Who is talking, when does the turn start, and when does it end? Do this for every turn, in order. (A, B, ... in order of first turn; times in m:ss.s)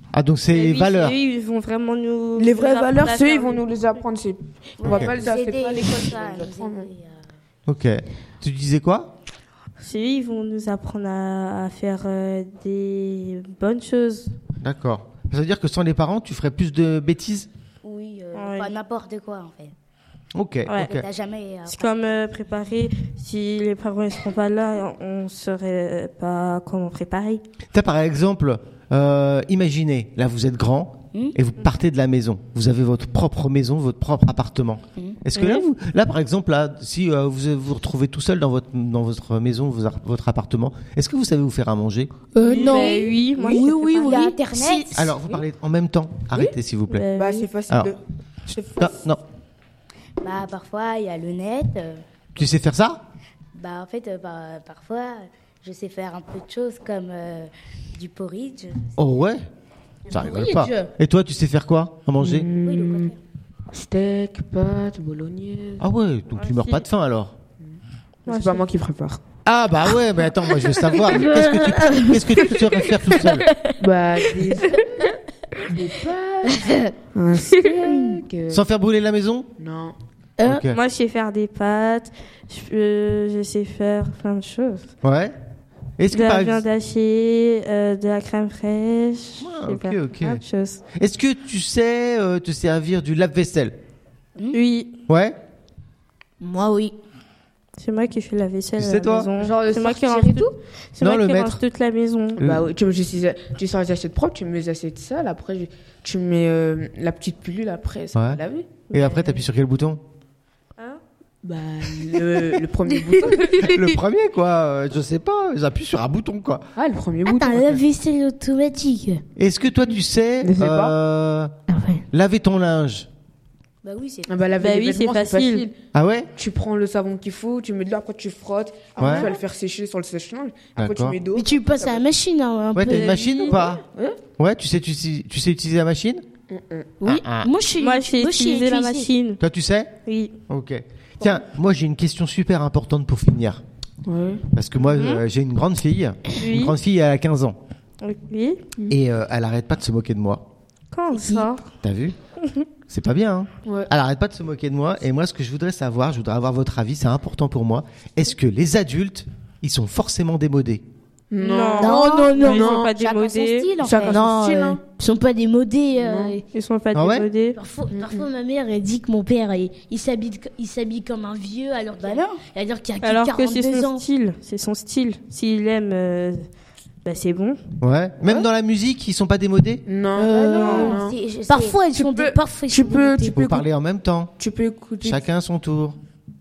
0:00.1-0:01.1 A
0:00.5-0:03.7 B
0:02.4-0:06.9 C
0:04.8-0:07.2 D
0:04.9-0:05.1 A
0:07.7-0:09.1 A
0:09.8-0:14.3 B
0:14.6-0:17.5 A
0:17.8-0:19.7 D
0:18.3-0:18.7 B
0:20.3-0:21.1 A
0:20.8-0:22.2 D
0:21.7-0:27.4 B
0:27.7-0:42.1 A
0:35.4-0:35.6 B
0:42.3-0:45.0 E
0:42.4-0:43.7 C
0:42.4-0:44.2 B
0:42.5-0:45.1 D
0:44.9-0:47.1 A
0:46.9-0:47.5 B
0:47.2-0:49.0 C
0:48.8-0:49.2 A
0:50.2-0:52.0 D
0:52.4-0:53.0 A
0:53.5-0:58.9 D
0:59.0-0:59.4 A
1:00.1-1:00.9 E
1:00.1-1:02.5 A
1:02.2-1:03.1 C
1:02.6-1:03.2 D
1:03.7-1:05.9 C
1:05.8-1:07.4 A
1:06.4-1:06.8 B
1:07.6-1:09.2 C
1:08.3-1:08.7 B
1:09.4-1:13.4 A
1:11.0-1:15.1 E
1:13.8-1:15.1 C
1:15.7-1:18.6 C
1:16.4-1:16.9 E
1:17.8-1:18.2 E
1:18.5-1:19.5 A
1:19.6-1:20.0 C
1:20.4-1:20.6 E
1:20.4-1:20.8 A
1:20.7-1:24.9 B
1:25.0-1:25.4 A
1:26.0-1:26.6 A
1:26.1-1:30.8 B
1:29.4-1:30.4 A
1:30.9-1:33.8 A
1:34.5-1:34.9 B
1:35.1-1:35.4 A
1:36.4-1:36.9 E
1:37.8-1:42.4 B
1:38.8-1:39.3 A
1:39.4-1:40.5 C
1:41.0-1:41.6 A
1:42.4-1:48.8 C
1:42.4-1:42.6 A
1:48.1-1:48.4 A
1:48.9-1:49.4 B
1:48.9-1:50.0 A
1:51.4-1:53.7 C
1:53.1-1:53.6 E
1:53.6-1:56.6 A
1:56.8-1:57.8 C
1:57.2-1:59.2 E
1:59.4-2:01.5 A
2:00.4-2:00.9 C
2:01.7-2:02.0 E
2:02.1-2:03.1 A
2:03.8-2:04.4 D
2:04.3-2:05.7 C
2:04.6-2:05.6 B
2:05.9-2:06.3 A
2:06.4-2:12.0 C
2:09.0-2:09.3 A
2:10.8-2:11.2 A
2:11.3-2:13.2 E
2:12.8-2:13.8 A
2:12.9-2:13.6 B
2:13.4-2:14.2 C
2:14.4-2:16.2 A
2:16.5-2:16.9 C
2:17.0-2:19.1 E
2:17.0-2:17.5 A
2:17.8-2:19.4 B
2:19.4-2:19.9 A
2:20.1-2:20.3 B
2:20.5-2:23.6 A
2:24.1-2:24.4 C
2:24.5-2:27.6 A
2:24.8-2:25.2 B
2:26.4-2:26.8 B
2:28.0-2:28.6 B
2:28.9-2:30.4 A
2:30.9-2:31.6 B
2:31.1-2:31.5 E
2:31.8-2:32.2 A
2:32.9-2:40.8 A
2:41.3-2:42.9 C
2:41.4-2:43.8 B
2:41.8-2:42.8 E
2:42.3-2:44.3 D
2:43.8-2:44.8 C
2:43.9-2:44.1 E
2:44.1-2:44.8 A
2:44.8-2:46.4 E
2:46.0-2:46.4 C
2:46.5-2:47.6 B
2:46.9-2:47.3 A
2:47.5-2:54.0 E
2:47.9-2:48.3 C
2:52.0-2:52.4 D
2:53.0-2:56.5 B
2:57.0-2:57.6 B
2:57.8-2:59.8 A
2:59.8-3:01.2 C
3:00.2-3:03.4 E
3:00.2-3:01.8 D
3:00.5-3:01.0 B
3:01.9-3:03.6 C
3:03.3-3:04.3 A
3:04.4-3:05.2 C
3:05.0-3:06.0 A